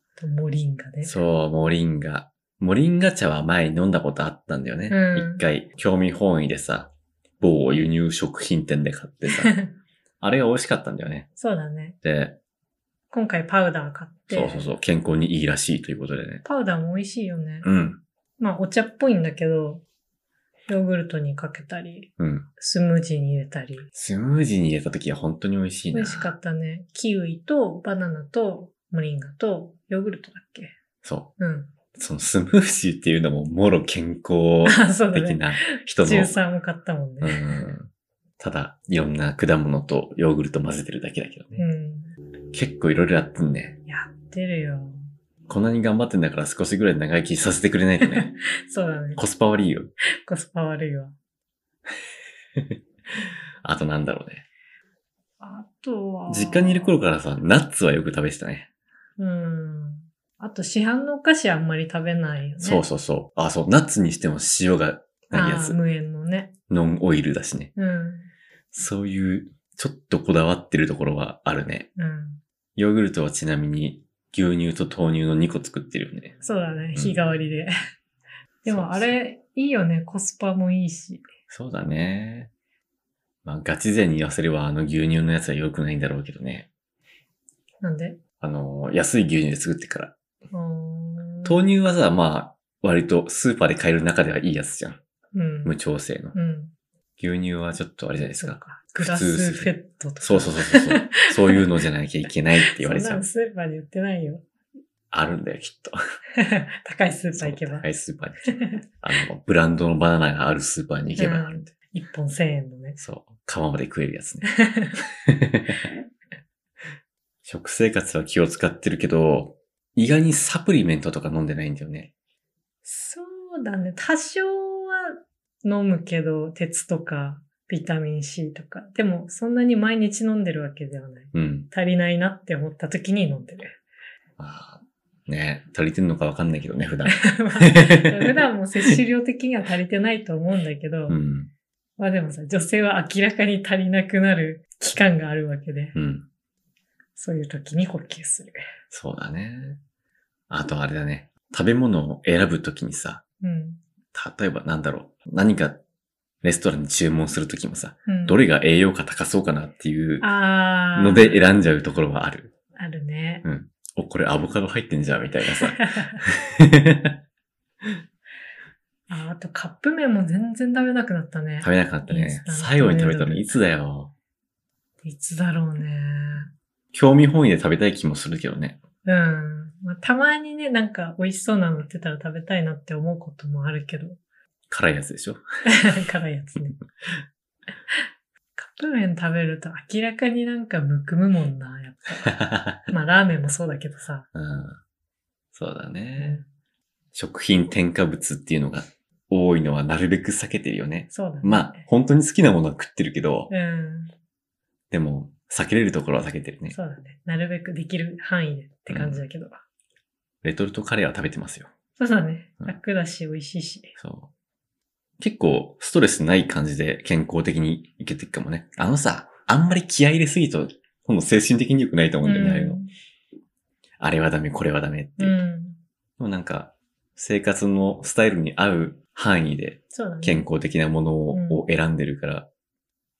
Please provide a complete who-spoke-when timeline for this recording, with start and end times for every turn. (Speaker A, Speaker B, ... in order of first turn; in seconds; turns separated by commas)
Speaker A: 0.2-1.1, Speaker B: 1.0-9.5, Speaker A: 4.9-5.4, Speaker A: 9.3-9.7, Speaker B: 10.2-11.3, Speaker A: 11.4-11.9, Speaker B: 12.0-12.4, Speaker A: 13.1-14.7, Speaker B: 14.3-16.4, Speaker A: 16.4-17.7, Speaker B: 17.6-18.0, Speaker A: 18.4-19.8, Speaker A: 20.7-23.9, Speaker B: 22.2-22.5, Speaker B: 23.9-26.3, Speaker A: 25.9-30.8, Speaker B: 31.0-31.3, Speaker A: 31.4-31.7, Speaker B: 31.9-36.4, Speaker A: 34.6-37.7, Speaker B: 37.2-41.6, Speaker A: 41.6-42.1, Speaker B: 42.5-43.8, Speaker A: 43.9-45.1, Speaker B: 45.5-48.3, Speaker A: 48.0-49.2, Speaker B: 49.2-49.9, Speaker A: 50.2-51.1, Speaker B: 53.6-54.4, Speaker A: 55.4-57.0, Speaker B: 56.3-58.7, Speaker A: 59.2-62.8, Speaker B: 62.6-65.8, Speaker A: 65.3-66.5, Speaker B: 66.7-67.7, Speaker A: 67.7-68.3, Speaker B: 68.7-71.9, Speaker A: 72.0-72.4, Speaker B: 72.8-76.3, Speaker A: 76.4-77.7, Speaker A: 78.6-81.2, Speaker B: 78.7-79.1, Speaker B: 81.5-82.5, Speaker B: 83.4-86.7, Speaker A: 87.8-88.2, Speaker B: 88.4-90.1, Speaker A: 90.5-91.6, Speaker B: 91.4-95.0, Speaker A: 95.3-95.8, Speaker B: 95.6-96.3, Speaker A: 96.3-96.7, Speaker B: 97.2-103.2, Speaker A: 98.3-101.6, Speaker A: 102.6-104.4, Speaker B: 105.1-106.0, Speaker A: 106.3-107.9, Speaker B: 107.4-111.7, Speaker A: 108.5-108.8, Speaker A: 111.2-113.0, Speaker B: 113.0-114.5, Speaker A: 114.4-115.0, Speaker B: 115.2-115.8, Speaker B: 117.4-122.1, Speaker A: 122.8-133.8, Speaker B: 131.3-131.7, Speaker B: 134.4-139.0, Speaker A: 137.1-141.2, Speaker B: 141.1-141.5, Speaker A: 142.0-145.9, Speaker B: 145.9-146.2, Speaker A: 147.2-148.6, Speaker B: 148.9-149.8, Speaker B: 150.5-153.2, Speaker A: 153.4-153.8, Speaker B: 154.1-155.8, Speaker B: 156.4-160.3, Speaker A: 158.1-158.4, Speaker A: 160.2-161.4, Speaker B: 160.9-162.5, Speaker A: 162.8-163.4, Speaker B: 163.4-167.2, Speaker A: 165.8-166.2, Speaker A: 169.1-173.6, Speaker B: 171.6-174.1, Speaker A: 175.0-176.5, Speaker B: 176.9-178.8, Speaker A: 179.0-184.2, Speaker B: 184.7-185.4, Speaker A: 185.7-186.8, Speaker A: 188.6-194.3, Speaker B: 192.3-192.9, Speaker B: 194.3-194.8, Speaker B: 195.5-196.4, Speaker A: 196.2-196.4, Speaker B: 197.1-203.5, Speaker A: 201.1-201.8, Speaker A: 203.5-204.1, Speaker B: 204.9-206.8, Speaker A: 206.7-209.6, Speaker B: 208.9-209.2, Speaker B: 210.4-211.7, Speaker A: 212.0-213.9, Speaker B: 214.0-214.3, Speaker B: 215.2-222.8, Speaker A: 222.2-222.9, Speaker B: 224.0-225.4, Speaker A: 225.2-225.8, Speaker B: 226.2-232.5, Speaker A: 229.9-230.5, Speaker A: 231.3-231.6